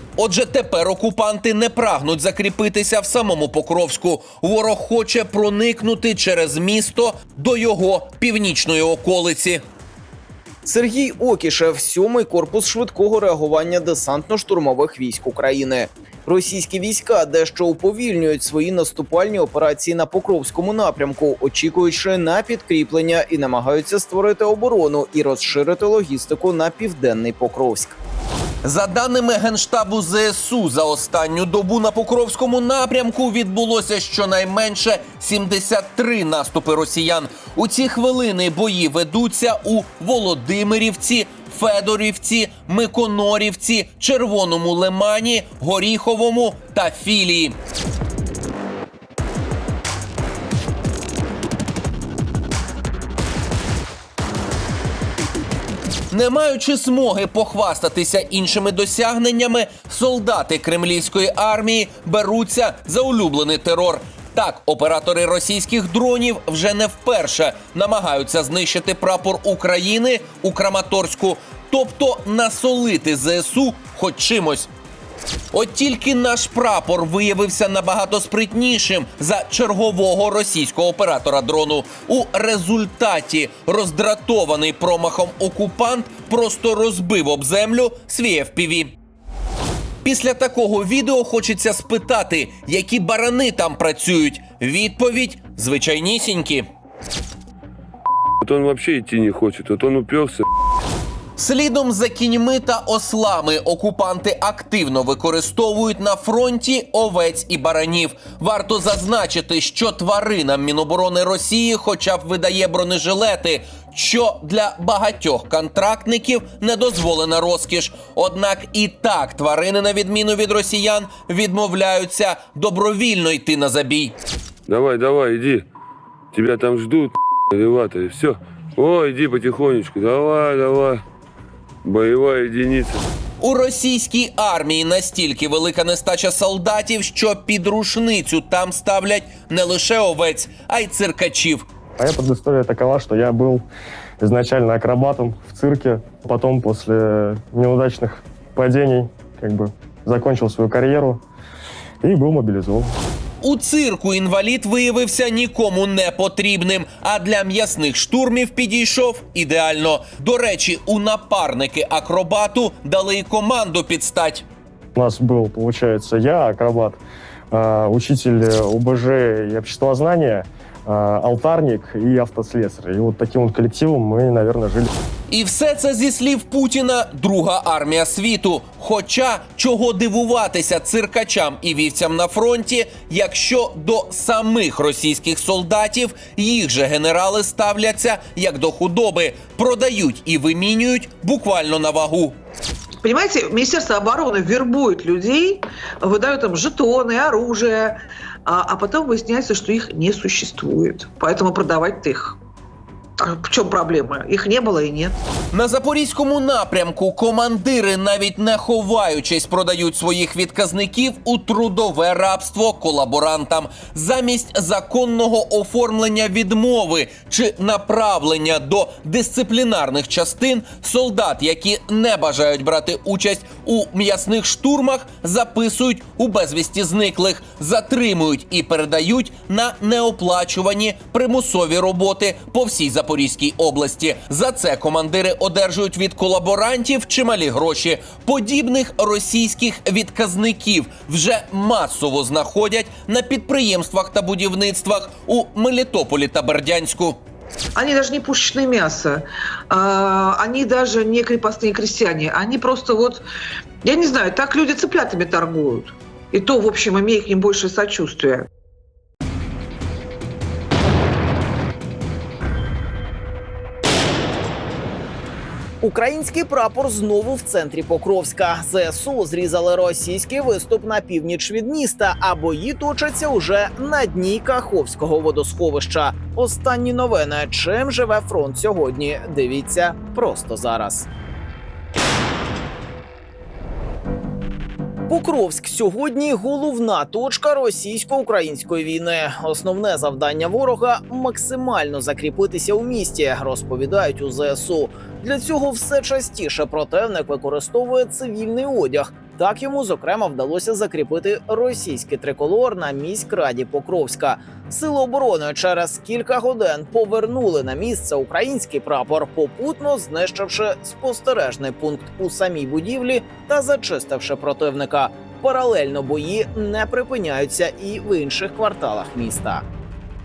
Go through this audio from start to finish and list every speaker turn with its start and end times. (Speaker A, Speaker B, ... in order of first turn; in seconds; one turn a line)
Speaker A: 0.2-9.6
Speaker B: 10.6-28.0
Speaker A: 28.6-47.5
Speaker A: 56.1-74.7
Speaker A: 75.5-88.9
Speaker A: 90.0-96.7
Speaker C: 98.4-100.4
Speaker A: 101.4-124.1
Speaker C: 124.7-125.6
Speaker C: 126.3-131.0
Speaker C: 131.8-133.0
Speaker A: 133.4-141.7
Speaker D: 142.0-143.7
Speaker D: 144.2-151.2
Speaker D: 152.0-152.9
Speaker A: 153.4-164.4
Speaker D: 164.9-167.0
Speaker D: 167.5-174.9
Speaker A: 175.3-192.3
Speaker E: 193.0-202.4
Speaker E: 203.2-205.2
Speaker A: 205.5-247.2
Speaker E: 247.8-253.2
Speaker E: 253.8-258.4
Speaker B: 265.8-281.1
Speaker B: 285.1-319.6